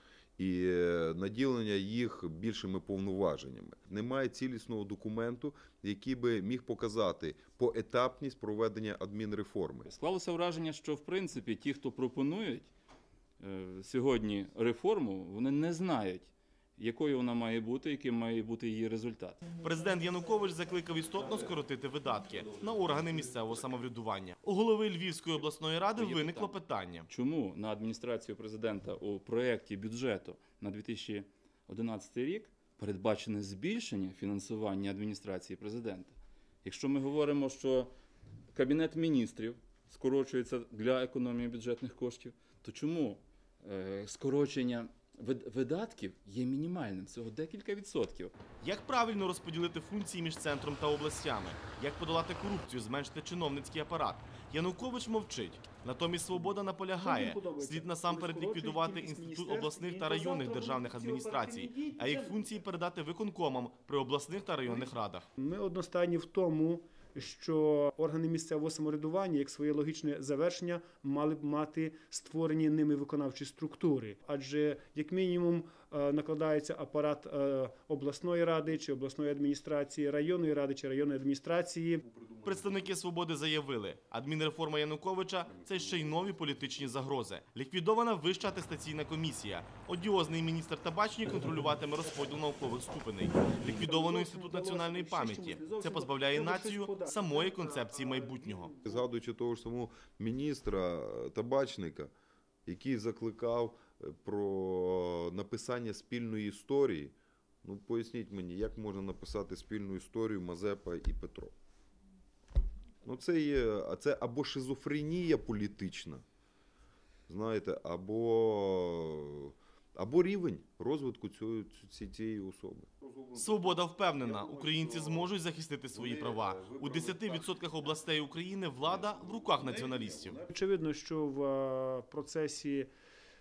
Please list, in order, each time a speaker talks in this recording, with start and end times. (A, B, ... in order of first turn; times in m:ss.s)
0:00.4-0:09.9 A
0:09.9-0:12.7 B
0:13.4-0:19.4 B
0:19.6-0:27.1 C
0:25.9-0:36.1 B
0:36.6-0:37.9 B
0:38.5-0:48.3 B
0:48.6-1:05.2 C
0:56.3-1:02.4 D
1:04.6-1:22.0 D
1:22.0-1:23.0 A
1:22.4-1:38.8 C
1:25.5-1:27.1 A
1:33.6-1:39.0 D
1:38.8-1:42.1 A
1:42.6-1:51.5 A
1:53.0-1:56.2 A
1:57.3-2:05.4 A
2:03.3-2:10.4 C
2:05.9-2:10.5 A
2:10.5-2:12.9 D